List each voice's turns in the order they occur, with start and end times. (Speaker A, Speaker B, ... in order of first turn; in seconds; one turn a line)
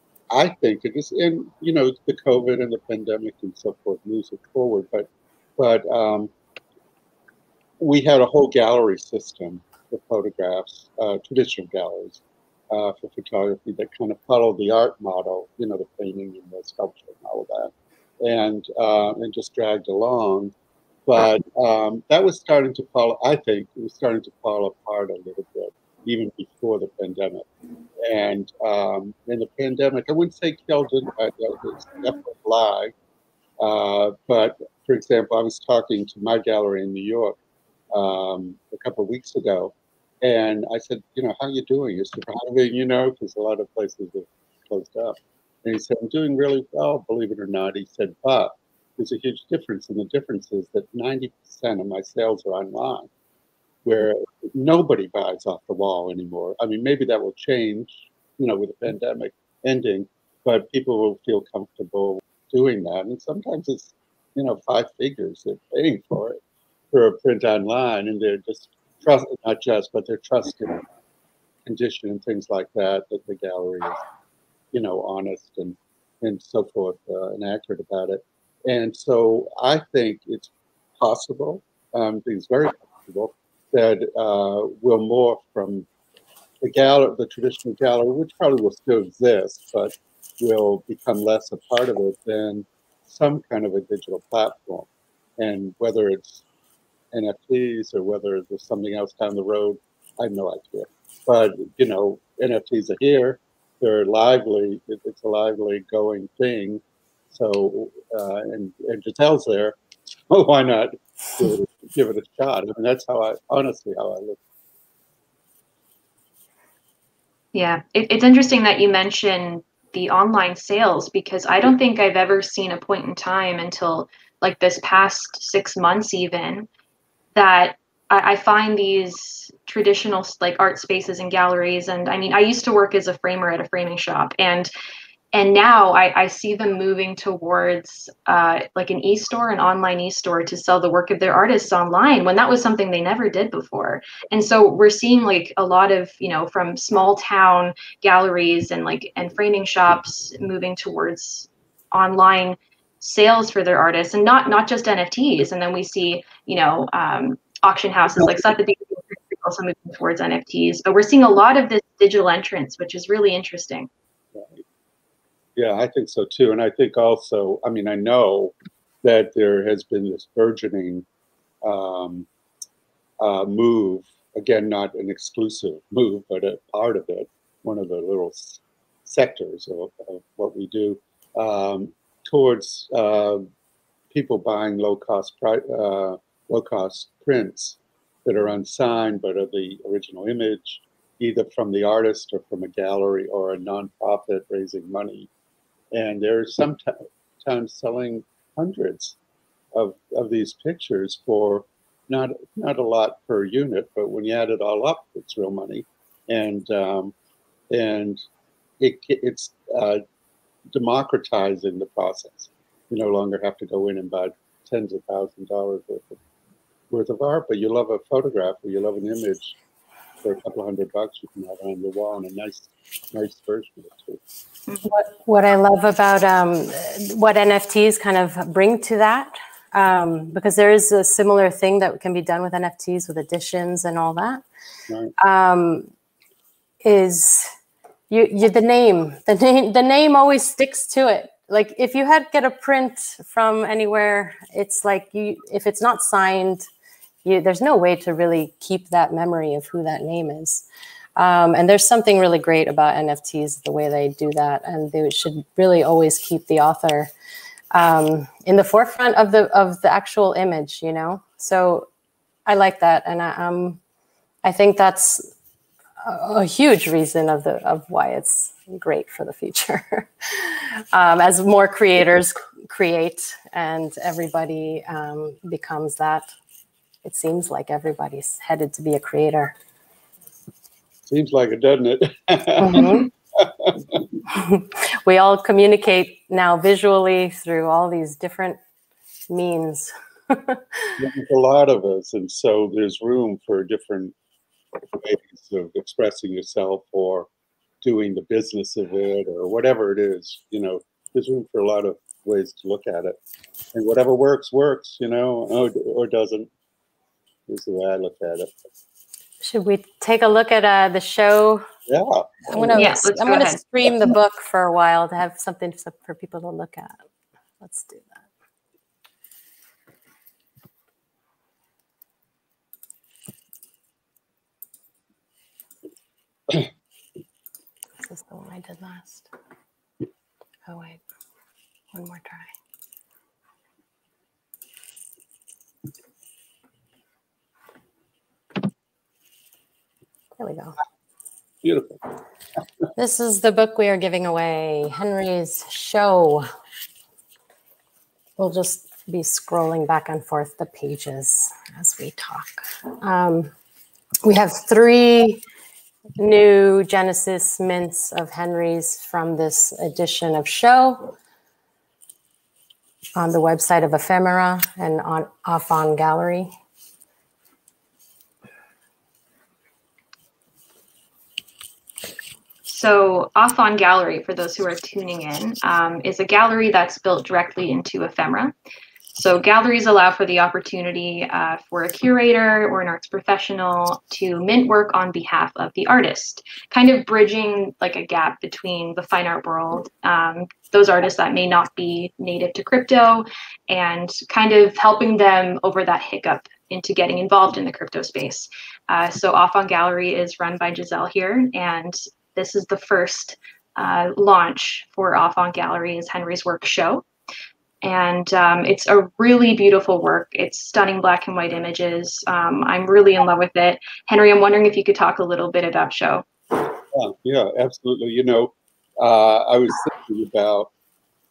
Speaker A: 0.3-6.3
Speaker A: 7.8-20.5
Speaker A: 21.1-27.5
Speaker A: 28.0-32.9
Speaker A: 33.6-37.4
Speaker A: 37.9-53.1
Speaker A: 53.8-66.4
Speaker A: 66.9-70.9
Speaker A: 71.6-74.0
Speaker A: 74.7-85.9
Speaker A: 86.6-96.4
Speaker A: 97.1-109.8
Speaker A: 110.3-114.4
Speaker B: 117.5-126.7
Speaker B: 127.3-134.7
Speaker B: 135.3-163.9
Speaker A: 164.3-164.6
Speaker A: 165.6-171.1
Speaker A: 171.6-172.3
Speaker A: 173.2-183.5
Speaker A: 184.1-195.3
Speaker A: 195.9-199.2
Speaker A: 199.7-207.1
Speaker A: 207.7-208.2
Speaker A: 208.8-210.0
Speaker A: 210.7-216.2
Speaker A: 216.9-219.6
Speaker A: 220.2-224.2
Speaker C: 224.8-234.4
Speaker C: 235.2-235.9
Speaker C: 236.8-237.5
Speaker C: 238.1-246.7
Speaker C: 247.2-250.6
Speaker C: 251.2-257.1
Speaker C: 257.7-261.9
Speaker C: 262.4-263.8
Speaker C: 264.4-265.3
Speaker C: 266.0-276.3
Speaker C: 277.0-279.5
Speaker A: 281.1-284.1
Speaker C: 282.6-283.1
Speaker C: 284.3-288.6
Speaker C: 289.3-291.0
Speaker A: 291.0-294.1
Speaker A: 294.9-297.3
Speaker A: 297.8-303.2
Speaker A: 303.7-306.5
Speaker A: 307.5-308.6
Speaker C: 309.4-311.6
Speaker A: 311.9-312.9
Speaker C: 312.5-317.0
Speaker B: 312.8-313.6
Speaker C: 317.6-318.2
Speaker C: 328.0-329.3
Speaker C: 330.6-331.0
Speaker C: 331.9-332.5
Speaker C: 340.4-340.8
Speaker A: 341.6-342.0
Speaker C: 342.9-346.4
Speaker C: 348.4-353.5
Speaker C: 354.2-355.4
Speaker C: 356.2-361.1
Speaker C: 363.1-366.5
Speaker B: 372.6-378.5
Speaker B: 379.1-407.0
Speaker B: 407.8-416.2
Speaker A: 416.9-420.7